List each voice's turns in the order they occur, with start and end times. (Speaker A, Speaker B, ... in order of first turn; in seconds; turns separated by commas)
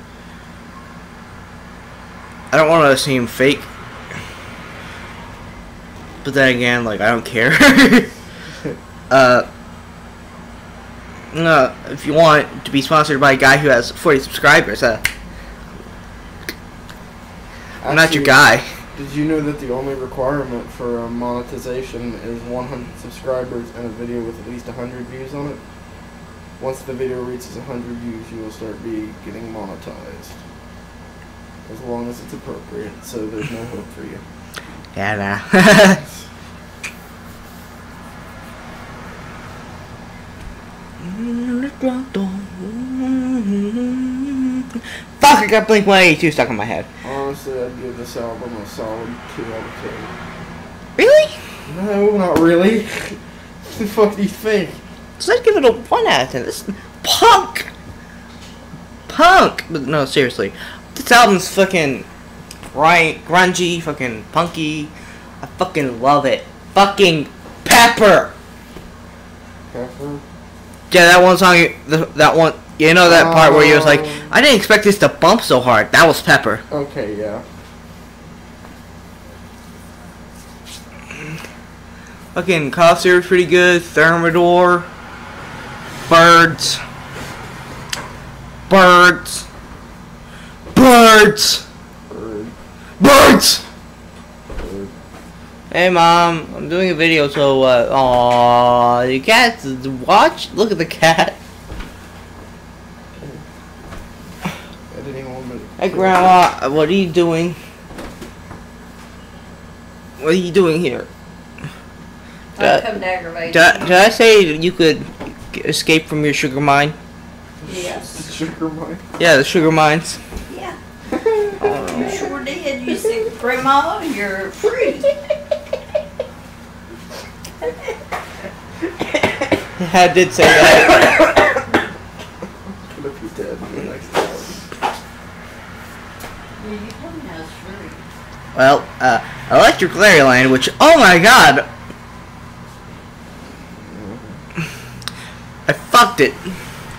Speaker A: 2.5-3.7, Speaker A: 6.2-8.1, Speaker A: 9.1-9.5, Speaker A: 11.3-15.1, Speaker B: 17.8-18.4, Speaker A: 17.9-18.7, Speaker B: 18.9-25.6, Speaker B: 26.6-30.4, Speaker B: 31.7-34.2, Speaker A: 35.0-36.0, Speaker A: 41.0-46.9, Speaker B: 47.0-50.1, Speaker A: 51.0-51.4, Speaker B: 51.7-54.8, Speaker A: 55.2-57.7, Speaker A: 59.1-62.1, Speaker A: 62.7-68.3, Speaker B: 69.7-70.2, Speaker A: 70.9-76.6, Speaker B: 73.0-74.4, Speaker B: 76.7-77.4, Speaker A: 82.3-84.9, Speaker A: 86.0-86.8, Speaker A: 88.7-89.5, Speaker A: 90.7-91.7, Speaker B: 92.1-92.5, Speaker A: 93.0-93.7, Speaker B: 94.5-94.9, Speaker A: 95.7-101.4, Speaker B: 103.2-103.4, Speaker B: 104.9-106.4, Speaker A: 105.8-107.6, Speaker A: 110.2-111.1, Speaker C: 112.5-114.0, Speaker A: 112.6-112.9, Speaker A: 113.5-117.0, Speaker B: 117.6-119.0, Speaker C: 117.7-118.1, Speaker A: 119.2-120.2, Speaker C: 120.5-120.8, Speaker B: 121.1-122.1, Speaker A: 121.6-122.2, Speaker C: 121.8-125.1, Speaker A: 129.8-131.3, Speaker B: 132.8-134.6, Speaker C: 136.6-138.0, Speaker A: 138.6-141.7, Speaker B: 143.7-144.4, Speaker A: 145.7-146.4